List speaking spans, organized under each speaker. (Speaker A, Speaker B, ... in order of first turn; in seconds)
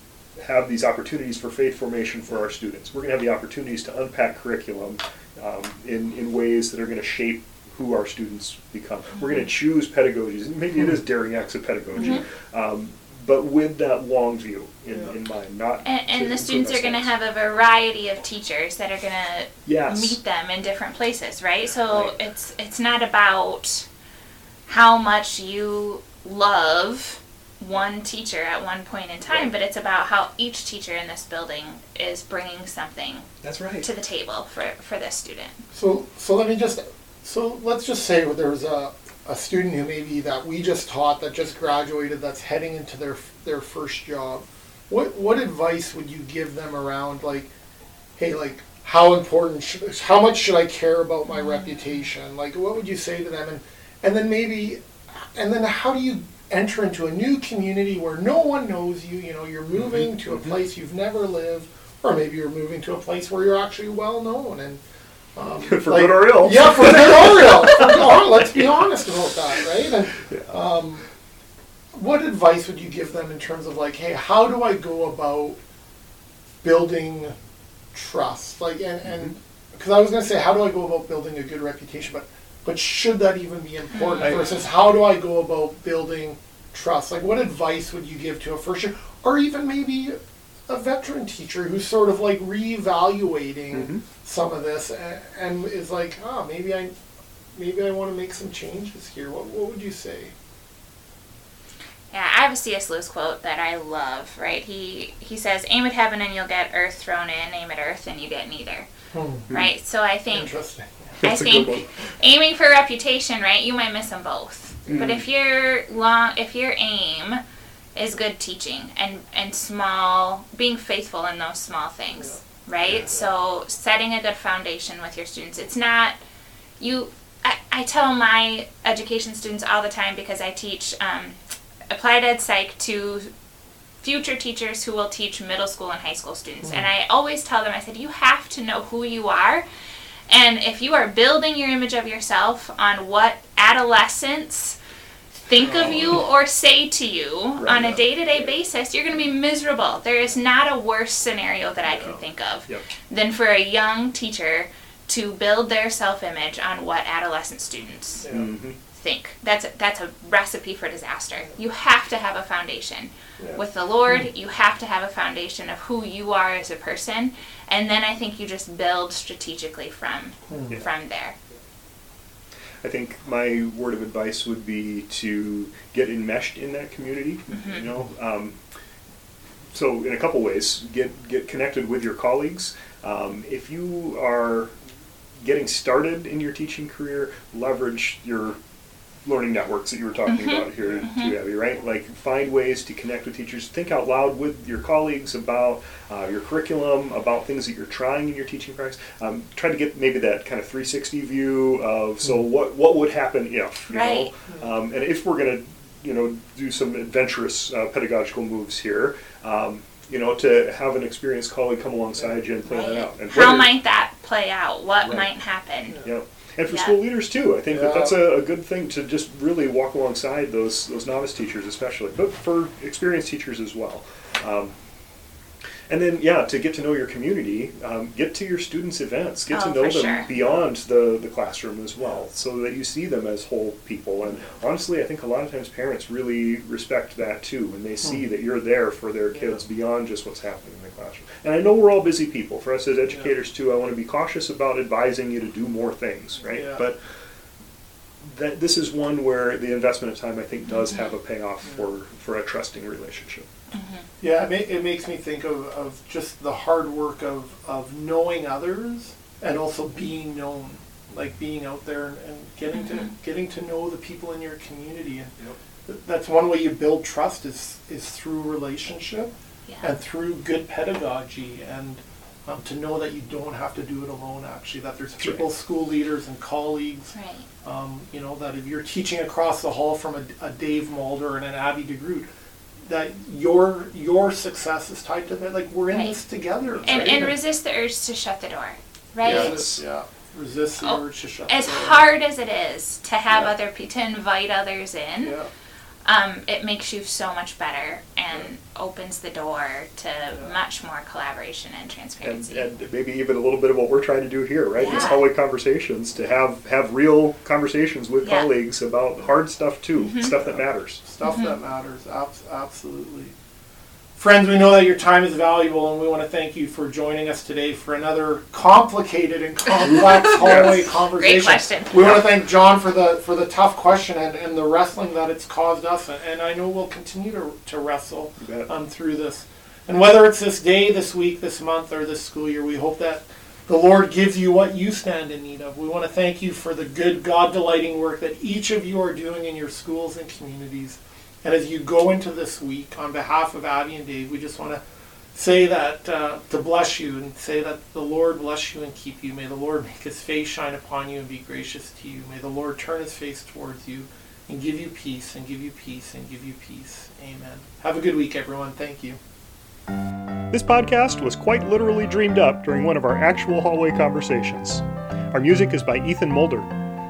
Speaker A: 0.4-17.1, 19.7-20.2, 33.4-33.9, 59.7-60.5, 65.6-68.7, 70.2-70.5, 84.2-84.5, 93.7-94.0, 111.2-111.9, 114.9-115.2, 122.8-123.1, 147.6-148.0, 158.3-158.8, 172.8-178.6, 179.7-184.7, 185.4-188.6, 189.2-213.7, 215.0-215.3, 216.0-224.7, 225.9-247.0, 248.2-253.5, 275.2-275.5, 286.7-287.2, 289.2-289.8, 302.2-311.0, 320.1-320.8, 321.9-322.2, 328.4-328.7, 360.5-366.7
Speaker B: 15.8-23.9, 24.7-33.3, 33.8-35.6, 51.3-51.9, 83.9-84.6, 102.1-108.9, 109.5-110.5, 111.2-117.4, 118.0-126.2, 126.8-131.4, 131.9-133.3, 134.0-139.7, 140.3-144.8, 145.5-158.3, 158.9-171.3, 177.5-177.9, 190.3-191.3, 203.9-204.3, 212.7-216.0, 216.7-216.9, 229.5-230.3, 250.7-251.1, 253.7-254.1, 262.7-263.1, 277.1-277.5, 285.9-286.2, 286.9-289.6, 290.8-295.4, 296.1-302.6, 304.8-305.2, 308.2-308.5, 310.0-310.3, 311.2-311.6, 320.4-321.9
Speaker C: 35.7-47.5, 48.2-54.8, 55.4-64.8, 65.4-71.0, 71.9-75.6, 76.6-77.3, 77.9-90.2, 90.7-96.9, 97.5-100.3, 109.1-109.5, 110.3-111.2, 136.6-136.9, 145.6-146.2, 151.9-152.2, 158.2-158.5, 163.4-164.3, 170.5-170.8, 217.7-218.2, 230.3-230.7, 246.5-246.8, 254.2-265.3, 265.9-282.3, 282.9-287.4, 289.2-292.0, 295.2-295.5, 304.8-305.2, 311.0-313.3, 314.2-344.8, 345.4-359.2